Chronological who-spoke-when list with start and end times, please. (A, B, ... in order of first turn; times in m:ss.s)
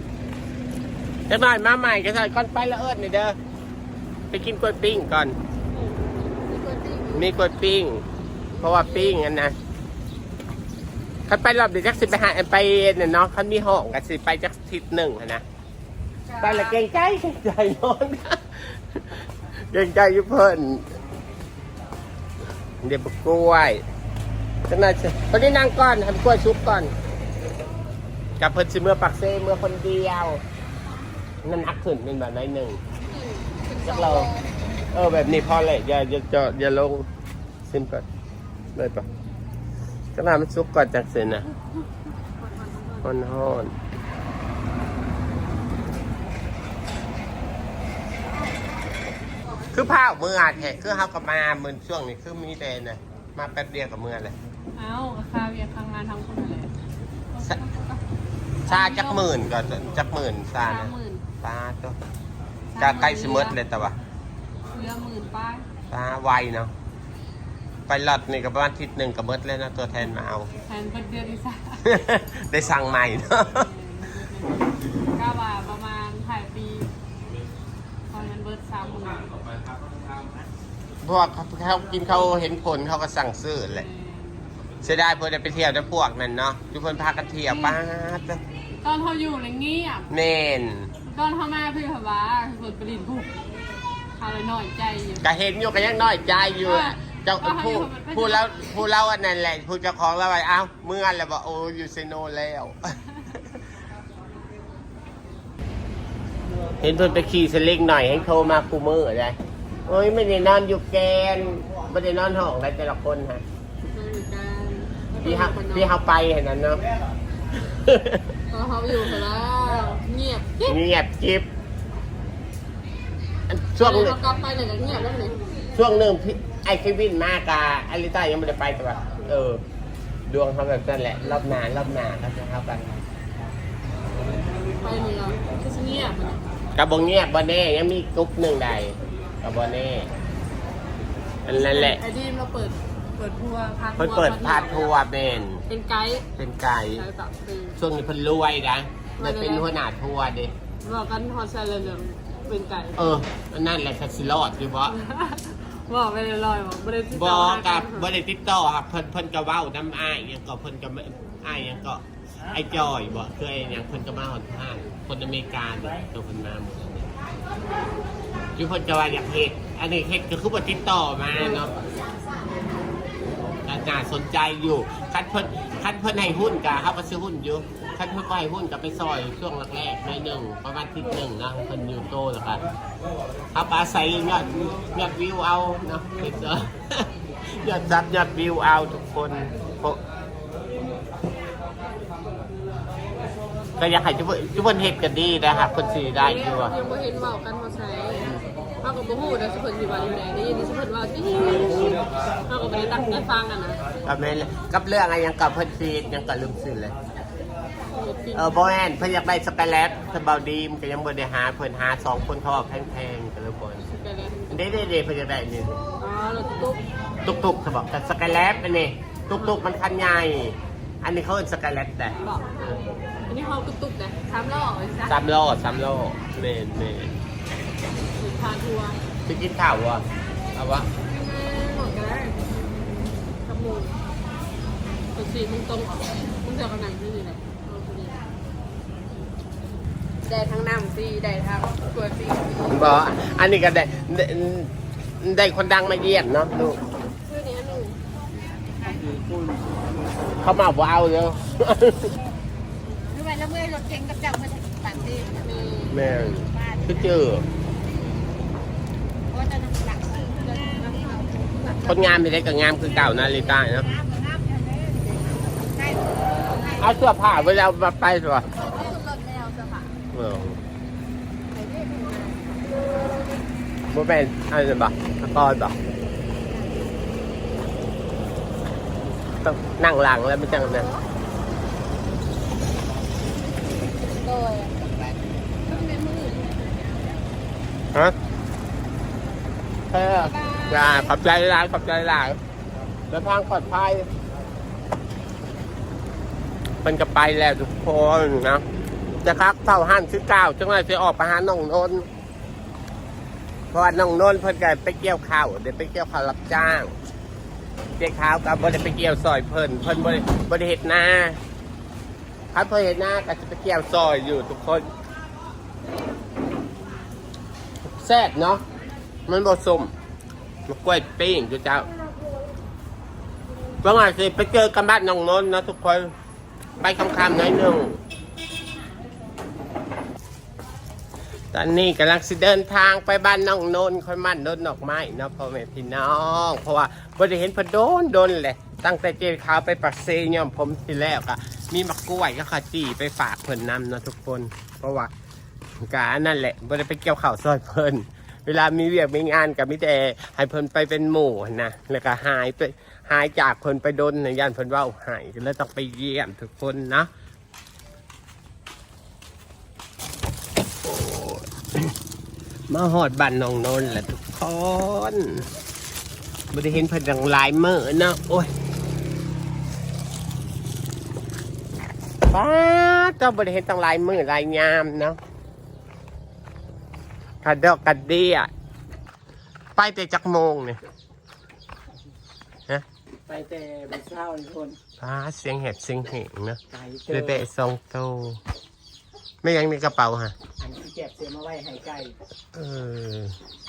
0:01.3-0:03.4 A
0:04.3-0:05.4 A
0:05.7-0:07.4 B
0:07.1-0:08.0 A
0:08.5-0:09.2 B
0:08.6-0:09.6 A
0:11.3-0:15.4 A
0:16.3-0:16.8 B
0:16.4-0:20.9 A
0:22.8-0:23.8 A
0:24.7-0:26.9 A
0:28.4-0:30.4 A
0:31.4-0:32.8 A
0:33.0-0:34.5 B
0:33.8-0:34.3 A
0:34.9-0:37.1 A
0:37.6-0:38.0 A
0:38.7-0:39.0 A
0:40.1-0:41.5 A
0:42.4-0:43.0 B
0:43.0-0:43.7 A
0:49.7-0:54.3 A
0:54.8-0:56.7 B
0:57.3-0:58.0 B
0:58.6-1:02.0 A
0:58.7-0:59.3 B
1:00.6-1:01.2 B
1:02.7-1:03.6 B
1:02.8-1:04.0 A
1:04.7-1:05.6 B
1:05.9-1:06.7 A
1:07.9-1:10.5 A
1:10.6-1:11.8 B
1:11.8-1:13.7 A
1:13.4-1:16.9 B
1:18.1-1:19.6 B
1:21.0-1:23.8 A
1:23.7-1:24.5 B
1:24.8-1:28.4 A
1:27.5-1:27.8 B
1:28.8-1:30.1 B
1:30.1-1:30.9 A
1:31.0-1:33.3 B
1:34.2-1:35.2 B
1:35.2-1:43.5 A
1:36.6-1:38.9 B
1:46.8-1:53.4 A
1:53.9-1:55.9 B
1:55.2-1:56.8 A
1:57.6-1:58.3 A
1:58.5-2:00.8 B
1:58.9-1:59.2 A
2:00.6-2:01.5 A
2:03.5-2:04.2 A
2:03.8-2:05.4 B
2:05.7-2:09.6 A
2:10.3-2:13.0 A
2:14.8-2:16.4 B
2:16.7-2:20.1 A
2:21.4-2:22.0 A
2:21.5-2:24.9 B
2:24.0-2:25.6 A
2:25.7-2:26.3 B
2:26.4-2:27.1 A
2:26.9-2:27.8 B
2:27.8-2:30.5 A
2:29.2-2:29.7 B
2:30.8-2:33.1 B
2:33.0-2:35.0 A
2:34.9-2:38.1 B
2:37.1-2:47.1 A
2:48.6-2:51.8 A
2:53.6-3:02.6 A
3:03.5-3:10.0 A
3:13.8-3:16.8 A
3:16.2-3:18.3 B
3:18.8-3:23.8 B
3:24.0-3:26.9 A
3:28.0-3:28.5 B
3:28.3-3:33.8 A
3:33.9-3:34.6 B
3:34.5-3:35.8 A
3:36.0-3:36.8 B
3:37.2-3:43.0 A
3:39.3-3:39.6 B
3:42.2-3:42.8 B
3:43.3-3:45.2 B
3:45.1-3:47.2 A
3:48.2-3:49.0 B
3:49.2-3:50.9 A
3:51.0-3:54.0 B
3:55.1-3:58.2 B
4:00.2-4:03.0 B
4:02.7-4:06.8 A
4:07.2-4:08.0 B
4:10.4-4:12.1 A
4:13.3-4:15.4 C
4:15.2-4:16.2 B
4:15.9-4:17.4 A
4:19.4-4:20.3 C
4:21.8-4:23.9 A
4:26.4-4:26.9 B
4:26.7-4:28.5 A
4:28.6-4:29.9 B
4:30.1-4:30.6 A
4:31.5-4:32.6 B
4:33.9-4:35.8 A
4:39.4-4:40.9 A
4:40.5-4:41.0 B
4:44.2-4:44.9 B
4:45.6-4:46.6 B
4:49.9-4:52.4 A
4:50.2-4:51.1 B
4:53.1-4:54.1 A
4:56.8-4:58.6 A
4:59.2-5:02.1 A
5:03.7-5:06.9 A
5:08.0-5:11.4 A
5:12.5-5:14.9 A
5:17.8-5:18.6 A
5:19.3-5:19.9 A
5:20.7-5:21.9 A
5:23.8-5:26.1 A
5:26.8-5:28.0 A
5:31.5-5:45.1 A
5:45.8-5:57.1 A
6:00.8-6:01.9 A
6:02.7-6:05.5 A
6:06.5-6:08.5 A
6:12.3-6:15.2 A
6:17.4-6:18.5 A
6:19.8-6:20.8 A
6:23.3-6:24.8 D
6:25.0-6:28.4 A
6:26.7-6:27.4 D
6:29.4-6:30.3 A
6:30.6-6:32.2 D
6:32.5-6:33.4 A